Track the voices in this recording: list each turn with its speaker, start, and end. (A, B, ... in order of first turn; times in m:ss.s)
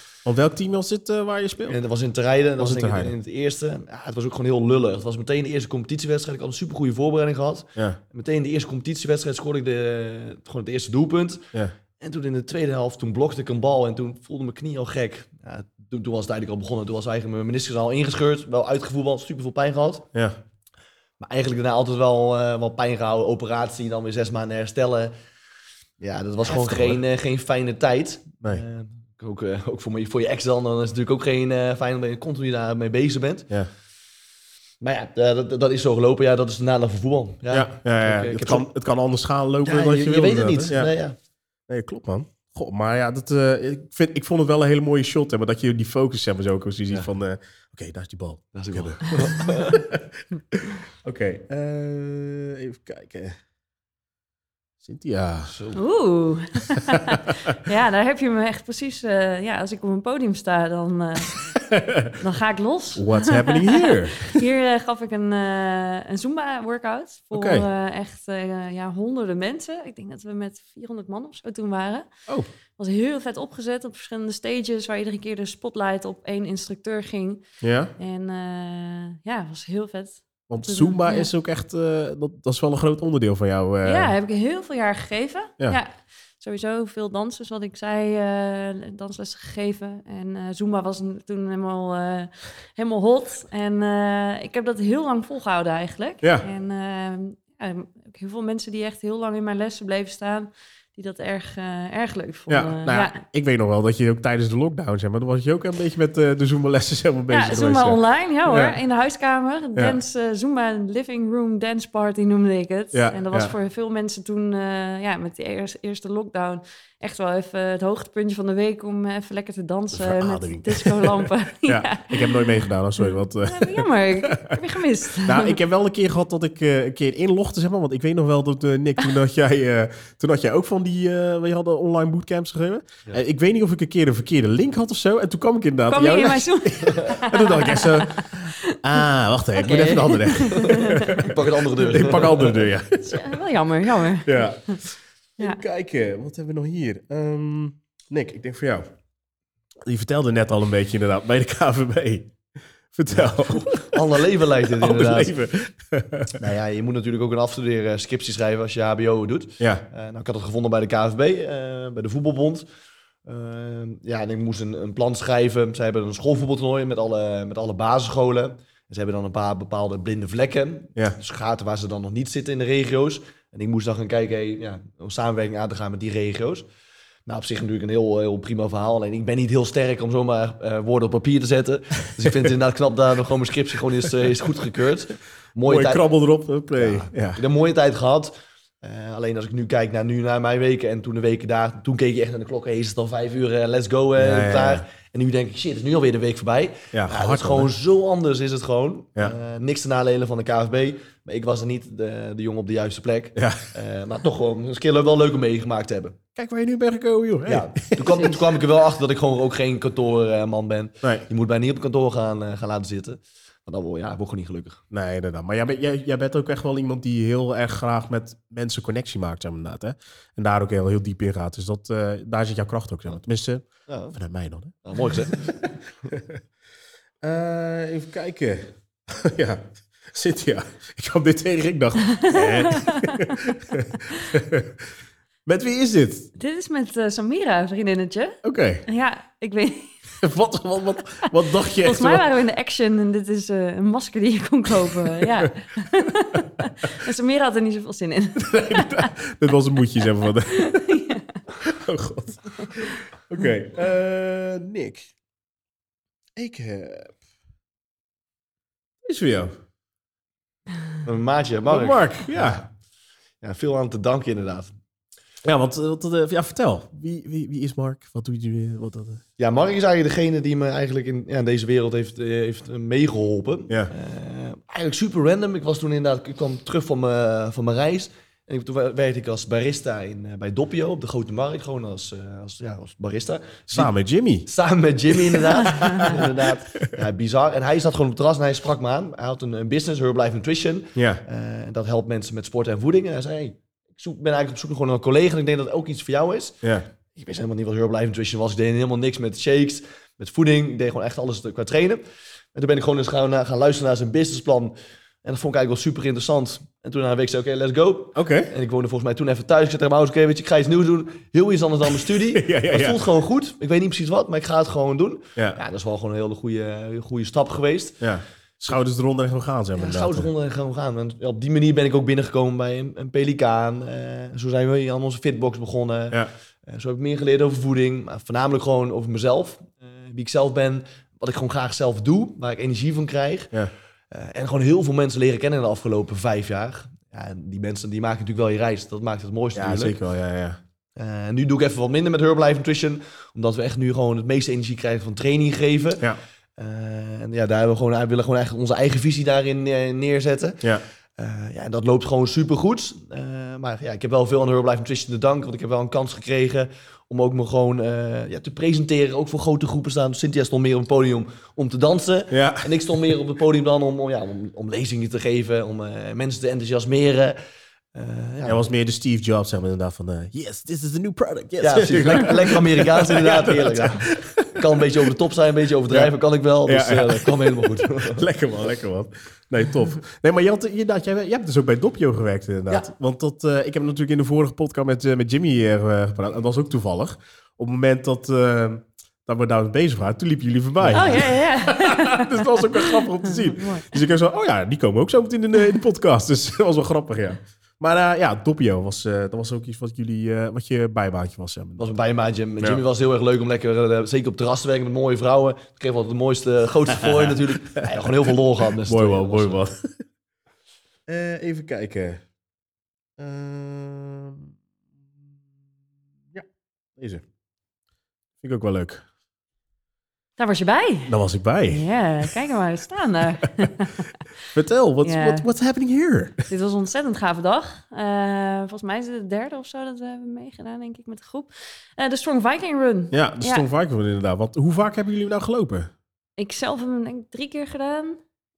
0:00.2-0:01.8 A
0:01.7-0:20.1 B
0:02.6-0:03.1 A
0:21.2-0:25.1 B
0:26.0-0:33.5 B
0:26.5-0:27.0 A
0:34.8-0:38.6 B
0:37.5-0:40.9 A
0:39.6-0:41.1 B
0:41.7-0:53.4 A
0:48.5-0:49.8 B
0:54.8-0:55.5 A
0:55.4-0:55.8 B
0:55.7-1:01.4 C
0:56.9-0:57.5 A
1:01.7-1:02.2 A
1:02.2-1:12.1 C
1:03.0-1:04.4 A
1:07.3-1:07.7 A
1:12.8-1:17.4 C
1:17.6-1:17.9 A
1:18.0-1:21.3 C
1:20.5-1:24.1 A
1:23.8-1:43.2 C
1:36.2-1:36.5 A
1:42.5-1:48.8 A
1:47.3-2:05.6 C
1:52.9-1:53.5 A
1:59.9-2:04.6 A
2:05.2-2:23.4 A
2:15.9-2:18.8 C
2:19.6-2:21.3 C
2:20.9-2:22.7 B
2:23.0-2:24.8 C
2:24.0-2:28.8 A
2:29.8-2:32.3 A
2:32.9-2:36.5 A
2:33.1-2:35.3 B
2:36.4-2:42.6 B
2:39.6-2:39.8 A
2:43.2-2:56.6 B
2:57.3-3:06.0 B
3:05.6-3:07.4 A
3:06.7-3:26.2 B
3:14.2-3:14.8 A
3:16.9-3:17.7 A
3:23.4-3:23.6 A
3:26.3-3:28.4 A
3:27.5-3:34.8 B
3:34.9-3:46.4 A
3:43.9-3:44.2 B
3:44.8-3:45.7 B
3:47.2-3:54.9 A
3:52.2-3:53.5 C
3:55.4-3:56.3 A
3:56.4-4:00.2 C
3:58.4-3:58.8 A
4:00.2-4:02.2 A
4:01.3-4:09.1 C
4:08.4-4:10.9 A
4:10.0-4:11.4 C
4:11.6-4:15.1 A
4:16.4-4:17.1 A
4:19.0-4:19.5 A
4:21.0-4:22.7 B
4:21.7-4:22.6 A
4:23.4-4:24.7 B
4:25.4-4:29.2 A
4:29.4-4:43.9 B
4:43.7-4:44.5 A
4:44.4-4:56.6 B
4:45.1-4:46.9 A
4:45.6-4:46.1 C
4:51.0-4:51.2 A
4:57.2-5:02.0 B
5:02.5-5:18.1 B
5:08.2-5:08.5 A
5:11.8-5:13.0 A
5:15.4-5:15.6 A
5:18.0-5:20.3 A
5:19.7-5:33.6 B
5:34.1-5:40.0 B
5:39.5-5:40.6 A
5:41.0-6:07.4 B
6:02.3-6:03.1 A
6:07.9-6:08.6 B
6:08.4-6:15.1 A
6:11.6-6:18.2 B
6:16.6-6:41.8 A
6:30.8-6:31.1 B
6:30.9-6:34.0 C
6:41.8-6:49.6 B
6:47.1-6:48.1 A
6:48.8-6:49.9 A
6:51.1-6:52.2 A
6:53.2-6:54.5 A
6:57.0-6:57.2 A
6:58.4-6:59.0 A
7:00.4-7:01.1 C
7:01.1-7:02.3 A
7:01.6-7:04.1 C
7:04.5-7:06.5 A
7:05.0-7:05.4 C
7:06.5-7:13.6 C
7:13.1-7:15.9 A
7:16.4-7:18.2 C